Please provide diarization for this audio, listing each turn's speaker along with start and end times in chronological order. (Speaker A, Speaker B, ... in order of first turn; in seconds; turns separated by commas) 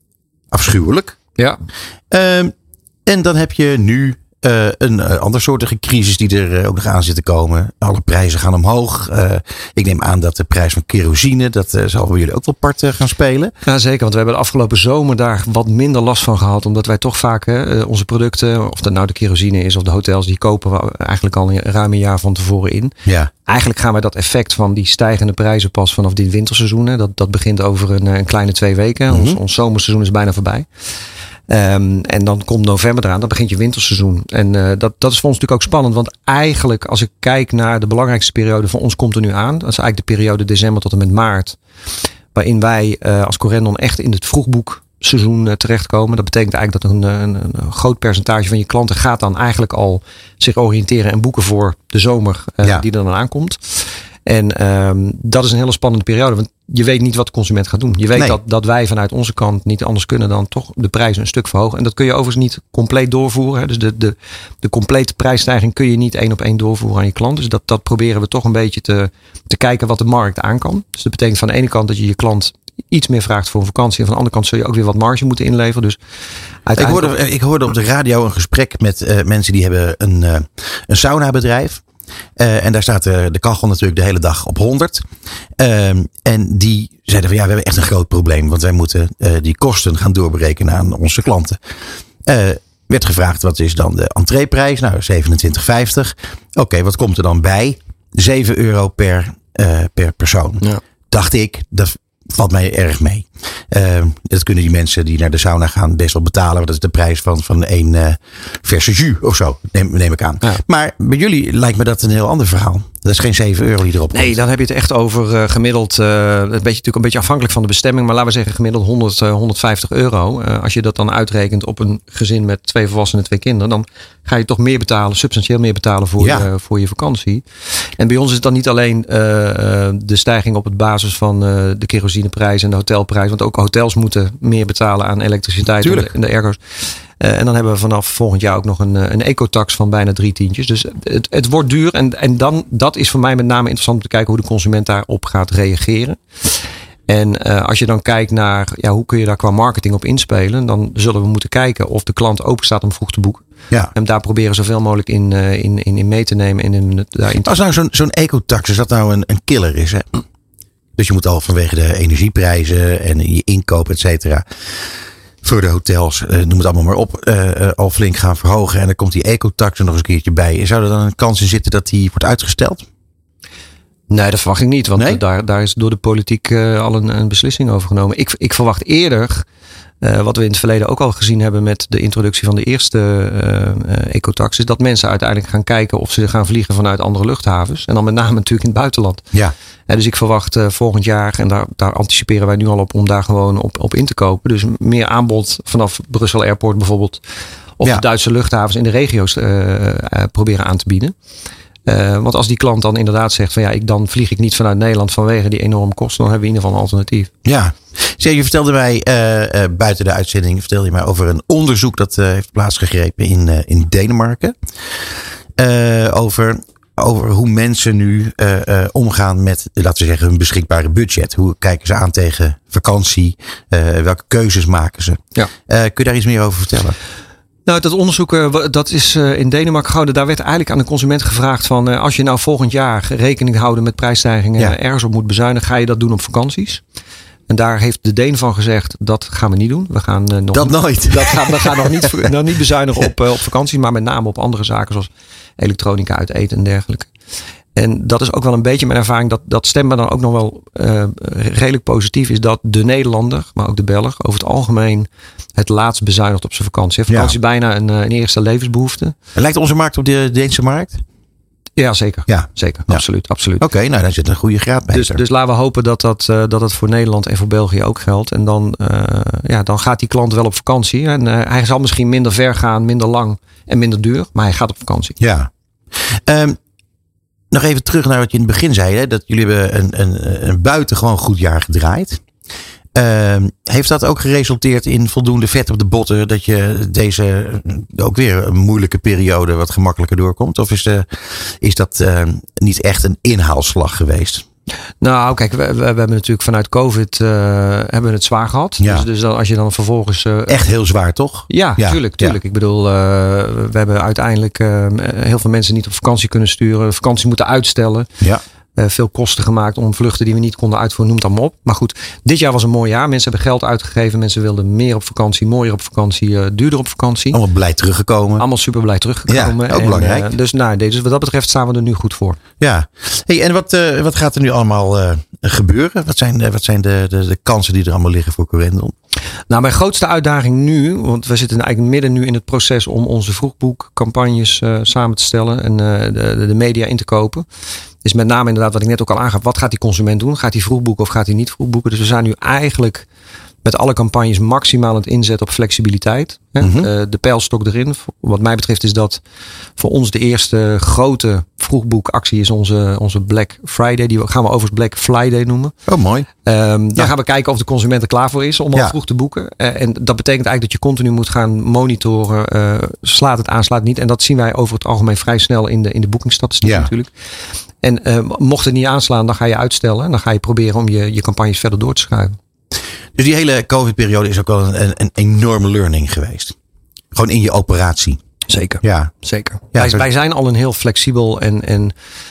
Speaker A: 0.5-1.2, Speaker A: 2.1-2.5, Speaker A: 3.0-13.5, Speaker B: 13.6-30.7, Speaker A: 23.1-23.3, Speaker A: 29.1-29.4, Speaker B: 31.5-41.6, Speaker B: 42.3-76.0, Speaker B: 76.6-77.1, Speaker A: 76.8-81.8, Speaker A: 82.4-85.0, Speaker A: 85.6-91.6, Speaker A: 92.2-114.3, Speaker B: 114.1-127.4, Speaker A: 126.2-126.5, Speaker B: 128.0-136.6, Speaker A: 135.7-136.1, Speaker B: 137.2-146.2, Speaker B: 147.1-153.4, Speaker B: 153.9-157.5, Speaker A: 157.4-160.1, Speaker A: 161.0-164.4, Speaker A: 165.4-172.8, Speaker B: 174.1-179.4, Speaker A: 174.9-175.2, Speaker B: 180.0-189.2, Speaker B: 189.9-197.2, Speaker B: 197.8-201.1, Speaker B: 201.8-207.3, Speaker A: 207.4-214.5, Speaker A: 215.6-226.9, Speaker B: 227.6-236.8, Speaker B: 237.5-247.1, Speaker A: 240.5-242.3, Speaker B: 247.7-259.1, Speaker A: 257.1-257.3, Speaker A: 259.3-261.0, Speaker B: 261.8-263.6, Speaker A: 262.3-263.0, Speaker A: 263.6-265.2, Speaker B: 264.9-275.2, Speaker A: 275.2-275.5, Speaker A: 276.3-276.6, Speaker A: 277.5-282.2, Speaker A: 282.9-294.4, Speaker B: 295.0-300.6, Speaker A: 298.8-299.1, Speaker A: 300.5-302.4, Speaker B: 301.5-308.1, Speaker B: 308.8-317.4, Speaker A: 317.3-318.4, Speaker B: 318.4-322.4, Speaker A: 319.3-320.3, Speaker A: 322.6-328.9, Speaker B: 329.5-337.4, Speaker B: 338.0-343.1, Speaker B: 343.6-349.2, Speaker A: 346.6-346.9, Speaker B: 349.8-355.7, Speaker A: 355.9-356.3, Speaker B: 356.4-367.1, Speaker A: 366.6-366.9, Speaker B: 367.8-372.4, Speaker A: 373.1-376.5, Speaker A: 377.1-378.2, Speaker B: 378.5-381.9, Speaker A: 378.8-379.1, Speaker A: 379.7-380.0